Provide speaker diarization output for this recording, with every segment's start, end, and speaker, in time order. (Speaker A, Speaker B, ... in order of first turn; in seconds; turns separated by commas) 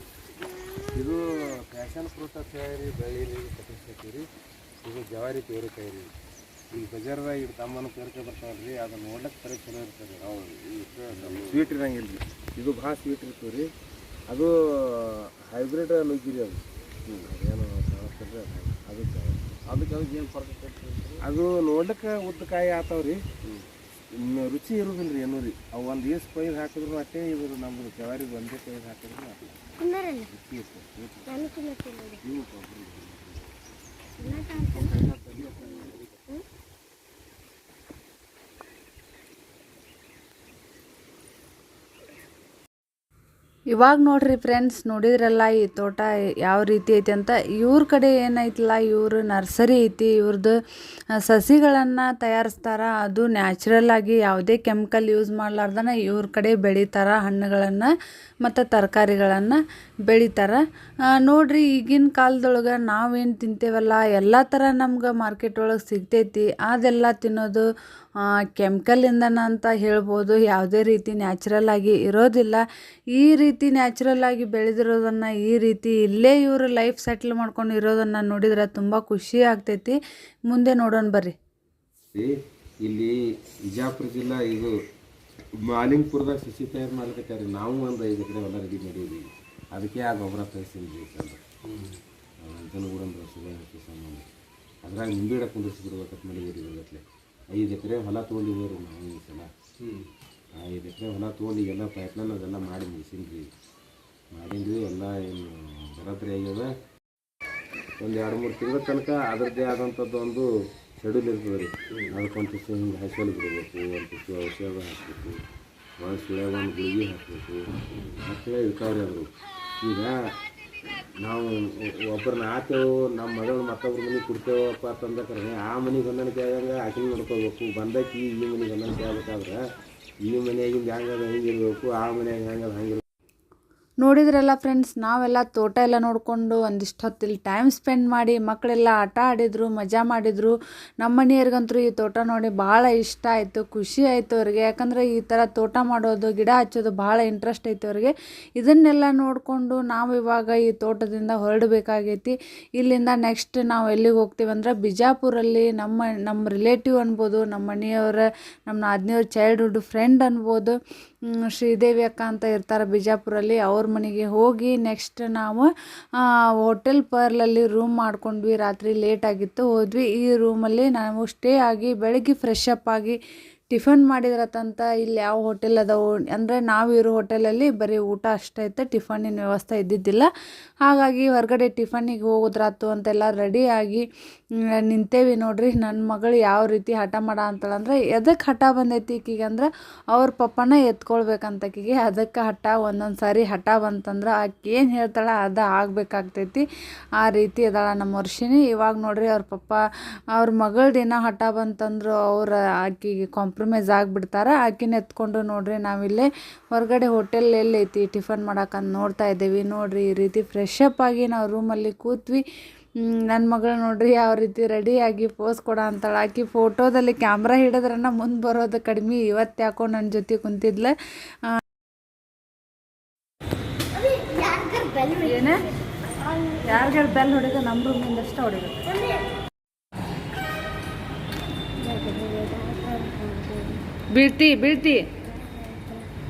Speaker A: 0.9-4.2, Speaker A: 4.8-6.1, Speaker A: 6.7-13.7, Speaker A: 14.3-19.8, Speaker A: 21.2-23.2, Speaker A: 24.3-29.6, Speaker B: 29.8-30.3, Speaker A: 30.3-31.3, Speaker B: 31.3-32.2, Speaker A: 32.2-33.4, Speaker B: 34.2-35.0, Speaker A: 34.8-36.1, Speaker B: 35.6-36.4, Speaker C: 43.7-50.5, Speaker C: 51.2-57.9, Speaker C: 58.4-67.7, Speaker C: 68.2-72.6, Speaker C: 73.1-81.3, Speaker A: 82.8-83.1, Speaker A: 83.7-84.7, Speaker A: 85.7-91.4, Speaker A: 92.4-94.3, Speaker A: 94.8-99.5, Speaker A: 100.6-103.5, Speaker A: 104.3-106.7, Speaker A: 108.0-110.5, Speaker A: 111.0-115.4, Speaker A: 116.0-119.3, Speaker A: 119.8-120.1, Speaker A: 121.2-121.6, Speaker A: 122.1-129.6, Speaker A: 130.3-133.0, Speaker C: 134.0-160.8, Speaker C: 161.3-173.2, Speaker C: 173.7-180.3, Speaker C: 180.8-184.1, Speaker C: 184.8-196.7, Speaker C: 197.2-199.8, Speaker C: 200.3-212.4, Speaker C: 213.0-221.6, Speaker B: 223.9-226.9, Speaker C: 225.2-225.6, Speaker C: 226.7-228.9, Speaker B: 228.9-229.3, Speaker B: 231.8-233.8, Speaker C: 234.1-235.0, Speaker B: 235.3-236.1